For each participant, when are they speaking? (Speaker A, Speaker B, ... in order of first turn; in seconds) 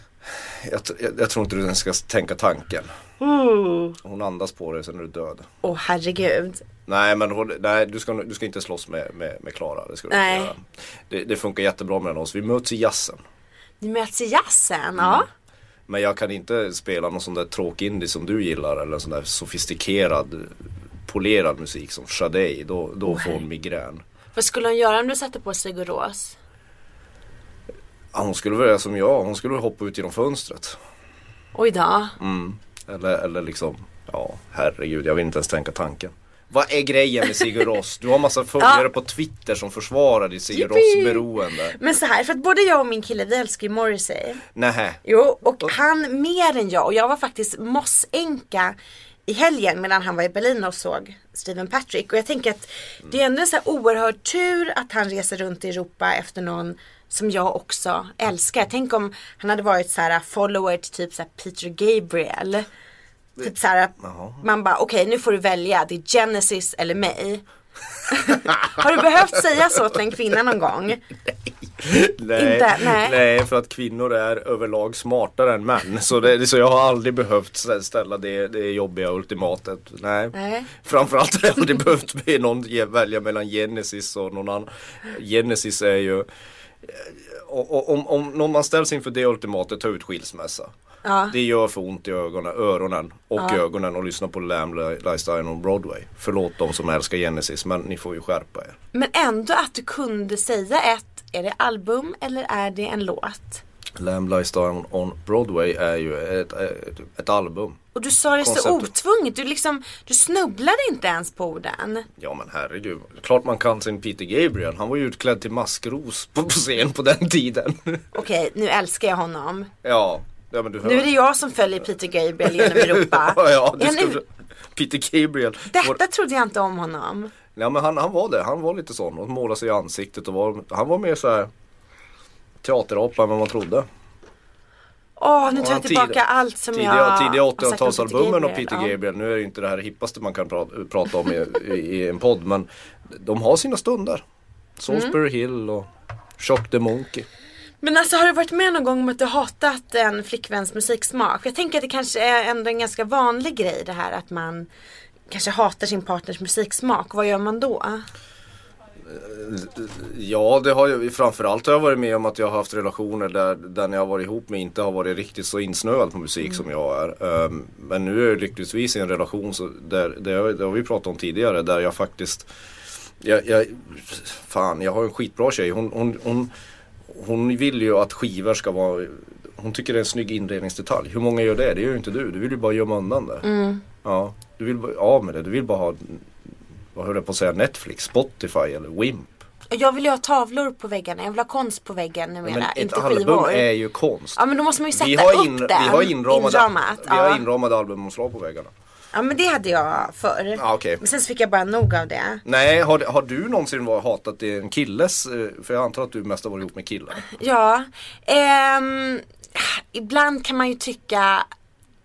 Speaker A: 0.3-2.9, 4.0-5.5, 6.8-13.2, 15.0-15.2, 15.9-24.0, 28.1-30.8, 32.2-41.8, 44.5-45.0, 64.0-64.4, 68.3-68.8, 71.8-86.2, 86.8-90.7, 91.3-98.8, 104.0-107.8, 108.4-108.9, 112.2-118.1, 119.8-121.1, 122.4-126.0, 127.5-131.5, 132.6-133.8, 135.5-136.2, 136.7-144.2, 144.8-145.9, 146.4-147.3, 159.0-172.5, 173.2-176.5, 177.1-183.5, 184.0-186.3, 186.9-189.4, 192.4-194.4, 194.9-198.7, 200.6-201.0, 202.4-207.2
Speaker B: 3.2-4.0, 5.6-6.6, 10.1-10.5, 13.8-15.3, 23.1-23.4, 24.3-26.4, 31.5-32.2, 38.6-38.9, 40.5-44.4, 45.0-48.8, 49.2-62.7, 63.4-67.4, 68.1-71.0, 72.3-73.2, 80.3-80.7, 91.0-91.3, 98.9-103.6, 107.9-112.1, 118.1-119.7, 120.8-124.2, 125.7-127.3, 135.2-138.9, 144.9-145.1, 147.8-154.7, 155.3-158.1, 183.4-183.8, 189.7-193.7, 194.3-197.4, 199.1-202.4, 207.2-211.5